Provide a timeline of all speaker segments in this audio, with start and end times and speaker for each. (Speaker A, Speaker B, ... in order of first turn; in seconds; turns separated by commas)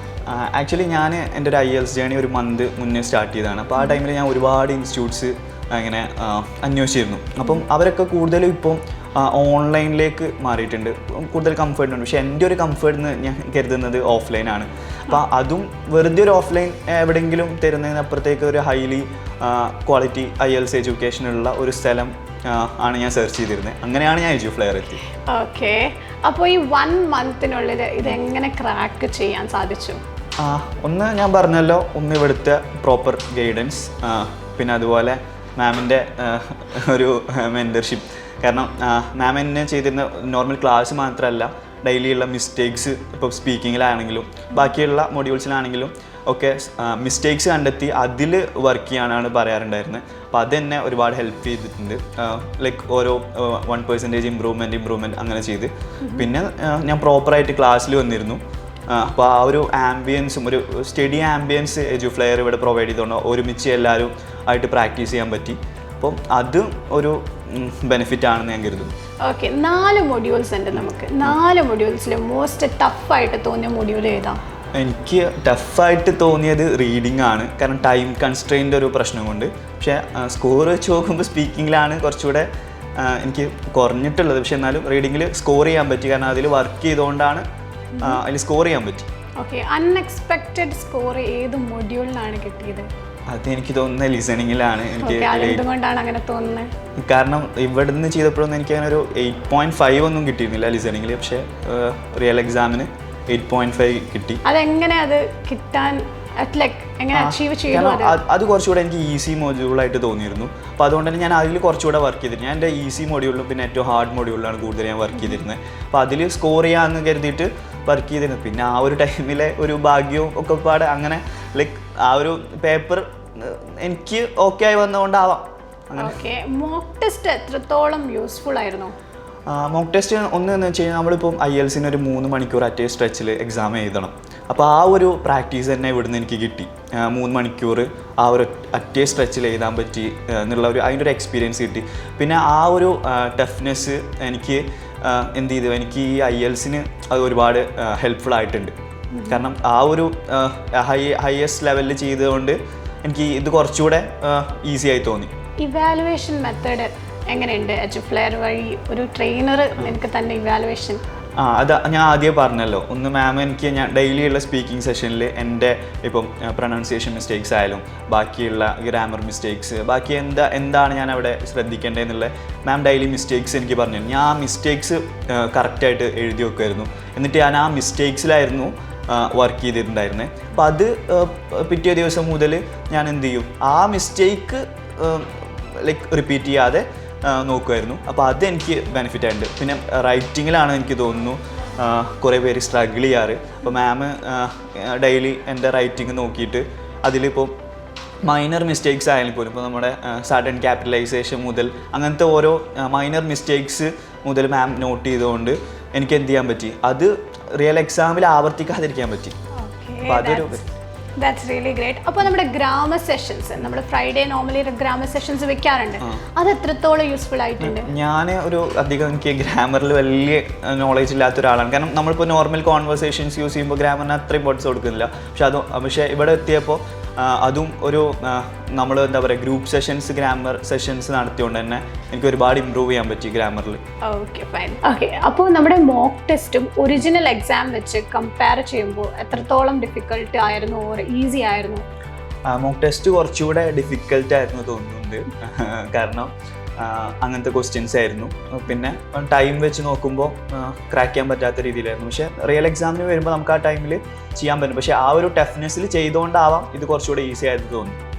Speaker A: 0.3-25.0, Speaker B: 25.2-30.0, Speaker A: 30.4-68.9, Speaker B: 69.2-74.4, Speaker A: 74.8-87.5, Speaker B: 88.0-88.2, Speaker A: 88.0-89.1, Speaker B: 89.4-92.9, Speaker A: 93.3-95.7, Speaker B: 95.0-96.7, Speaker A: 97.0-104.4, Speaker B: 104.5-108.2, Speaker A: 107.1-126.2, Speaker B: 126.0-128.9, Speaker A: 129.5-148.7, Speaker B: 149.1-149.4, Speaker A: 149.3-155.3, Speaker B: 155.6-161.0, Speaker A: 161.4-197.5, Speaker A: 198.2-209.3, Speaker B: 209.5-210.7, Speaker A: 210.1-210.6, Speaker B: 211.2-217.9, Speaker A: 217.6-233.8, Speaker B: 234.1-241.8, Speaker A: 242.5-258.0